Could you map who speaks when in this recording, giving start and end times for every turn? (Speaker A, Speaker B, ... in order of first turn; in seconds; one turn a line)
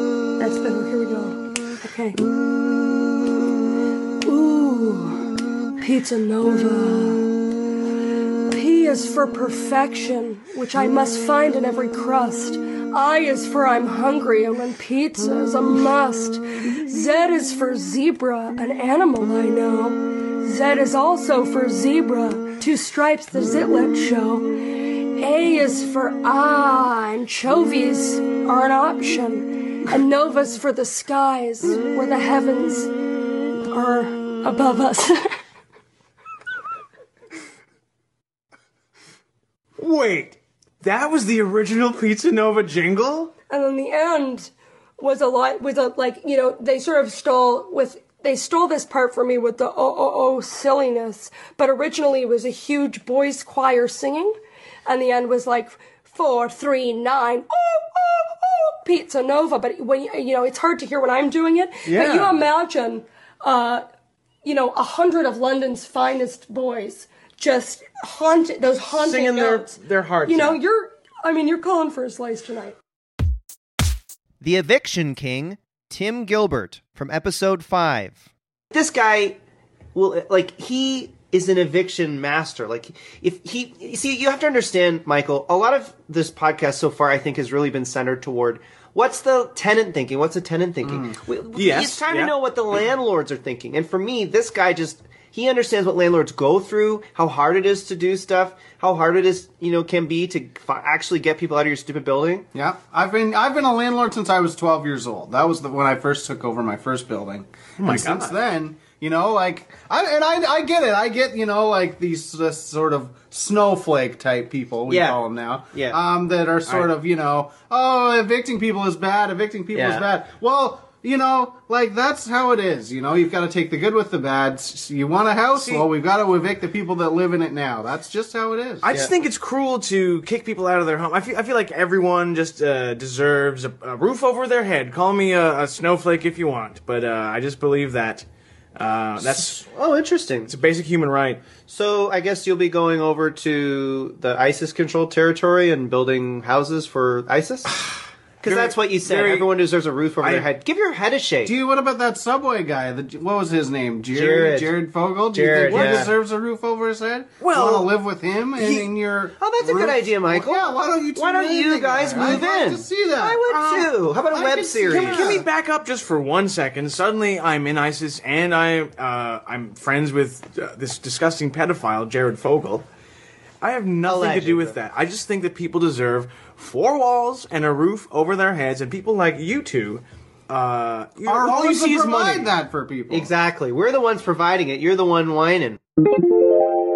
Speaker A: 0.4-2.2
Speaker A: 4.2-5.2
Speaker A: 5.8-7.3
Speaker A: 8.5-24.5
Speaker A: 25.1-32.9
Speaker A: 33.7-35.4
Speaker B: 39.8-43.3
Speaker A: 43.5-63.8
Speaker A: 64.4-72.8
Speaker B: 68.9-70.6
Speaker C: 74.4-78.2
Speaker C: 78.7-79.4
Speaker C: 79.9-102.5
Speaker D: 90.8-91.1
Speaker B: 91.5-92.3
Speaker D: 102.5-128.9
Speaker B: 107.8-108.4
Speaker C: 114.9-115.2
Speaker C: 115.7-116.0
Speaker B: 116.7-116.9
Speaker C: 119.7-120.1
Speaker B: 125.5-125.9
Speaker B: 128.8-139.7
Speaker C: 139.2-140.5
Speaker B: 140.5-141.4
Speaker C: 141.7-147.8
Speaker C: 148.4-151.5
Speaker B: 148.4-149.5
Speaker B: 150.2-150.5
Speaker D: 151.4-165.4
Speaker C: 154.1-156.1
Speaker B: 155.6-156.1
Speaker B: 157.4-157.9
Speaker B: 158.6-158.9
Speaker C: 159.4-165.4
Speaker B: 162.2-162.4
Speaker B: 164.8-172.9
Speaker B: 173.6-182.5
Speaker C: 174.0-174.8
Speaker D: 181.2-183.3
Speaker C: 183.1-185.8